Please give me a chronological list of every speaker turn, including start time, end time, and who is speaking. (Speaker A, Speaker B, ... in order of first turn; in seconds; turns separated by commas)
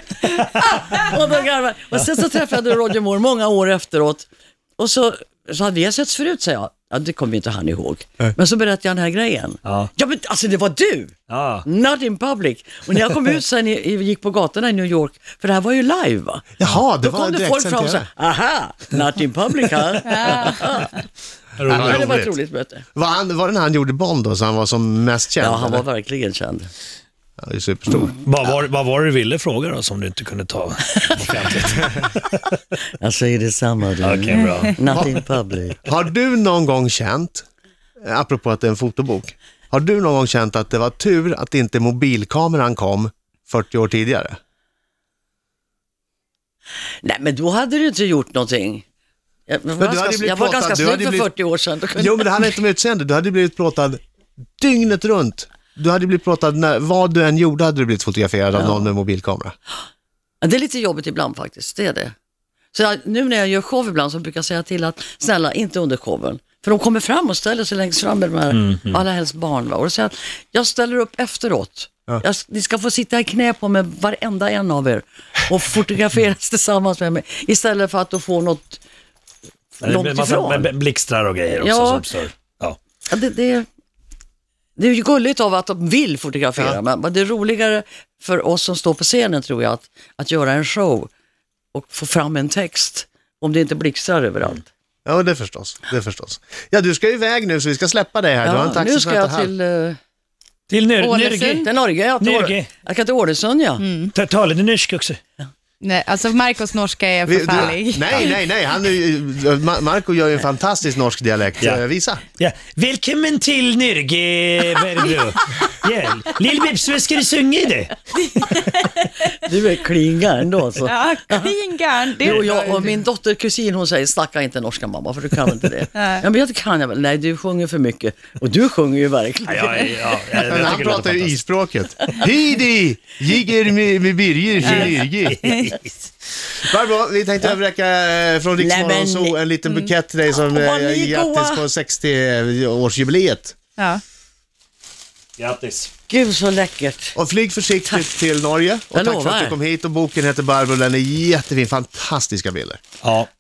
Speaker A: 0.4-20.9, Speaker B: 9.7-9.9, Speaker B: 11.3-11.7, Speaker C: 16.6-18.1, Speaker D: 20.1-20.5, Speaker B: 21.6-22.1, Speaker C: 21.7-22.3, Speaker A: 21.8-22.9, Speaker C: 22.9-25.8, Speaker A: 25.4-26.7, Speaker C: 27.4-28.1, Speaker B: 28.1-32.6, Speaker A: 33.0-35.8, Speaker B: 34.0-35.0, Speaker C: 34.9-35.2, Speaker C: 35.8-37.4, Speaker C: 38.0-44.4, Speaker A: 47.0-48.8, Speaker A: 49.5-52.4, Speaker C: 49.8-51.3, Speaker C: 52.0-54.0, Speaker C: 54.6-59.5, Speaker A: 58.5-58.9, Speaker A: 60.4-62.1, Speaker A: 62.7-78.8, Speaker B: 68.5-69.0, Speaker A: 79.8-80.7, Speaker B: 79.8-82.8, Speaker A: 81.5-82.1, Speaker A: 83.1-83.7, Speaker A: 84.8-91.1, Speaker A: 91.7-94.7, Speaker C: 95.1-99.5, Speaker A: 98.4-100.0, Speaker B: 100.7-101.7, Speaker D: 101.0-101.7, Speaker A: 101.6-103.8, Speaker B: 102.2-102.7, Speaker D: 103.8-104.1, Speaker B: 104.1-105.2, Speaker D: 105.8-108.4, Speaker C: 107.3-112.2, Speaker B: 112.4-118.0, Speaker A: 118.5-121.5, Speaker D: 120.8-122.4, Speaker A: 122.2-130.8, Speaker C: 122.3-123.0, Speaker D: 126.0-126.2, Speaker B: 129.4-131.3, Speaker C: 130.5-135.5, Speaker B: 135.2-135.9, Speaker C: 136.7-143.6, Speaker A: 138.6-139.4, Speaker D: 139.7-139.9, Speaker A: 140.3-141.7, Speaker B: 145.4-145.9, Speaker A: 146.1-147.2, Speaker C: 147.2-152.8, Speaker A: 148.9-149.6, Speaker B: 153.0-153.3